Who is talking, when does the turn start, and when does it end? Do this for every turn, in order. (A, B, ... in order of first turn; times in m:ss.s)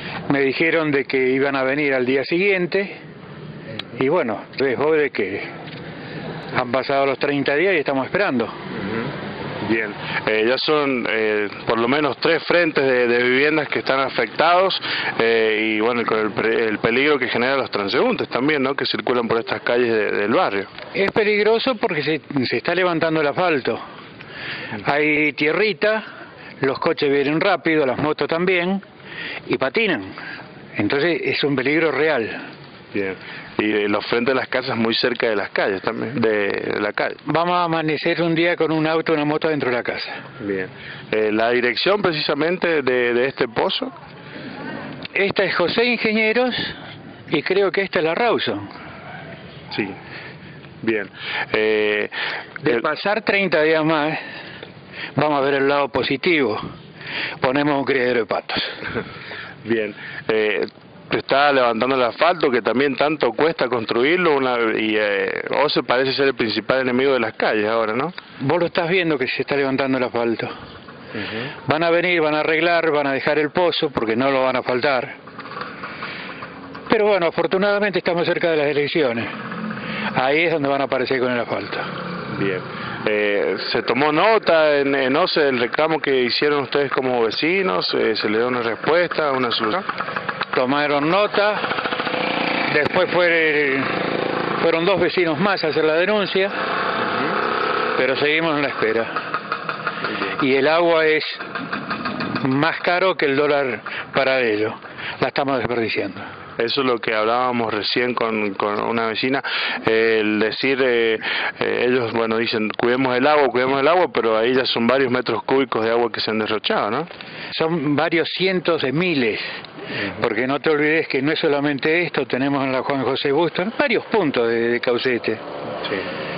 0:00.3-0:03.0 A
0:03.9-0:05.5 A
0:06.5-0:08.5 A
0:09.6-0:20.7 B
0:20.9-0:23.8 A
0:24.8-0:26.0 A
0:26.6-0:28.8 A
0:29.4-0:30.1 A
0:30.8-0:32.4 A
0:32.9-0:37.2 B
0:37.2-0:40.2 A
0:40.4-0:43.9 B
0:45.1-0:46.8 A
0:47.3-0:48.7 A
0:49.7-0:50.0 B
0:50.8-0:52.1 B
0:52.6-0:54.2 A
0:55.2-0:56.6 A
0:57.4-0:58.8 A
0:59.6-1:08.1 B
1:08.4-1:10.5 A
1:11.6-1:15.2 A
1:16.9-1:19.3 A
1:20.1-1:21.9 A
1:22.3-1:29.8 B
1:30.5-1:31.7 A
1:32.7-1:34.0 A
1:34.6-1:36.5 A
1:37.9-1:39.2 A
1:40.4-1:41.4 A
1:42.3-1:46.3 A
1:46.6-1:57.1 B
1:57.5-2:05.4 A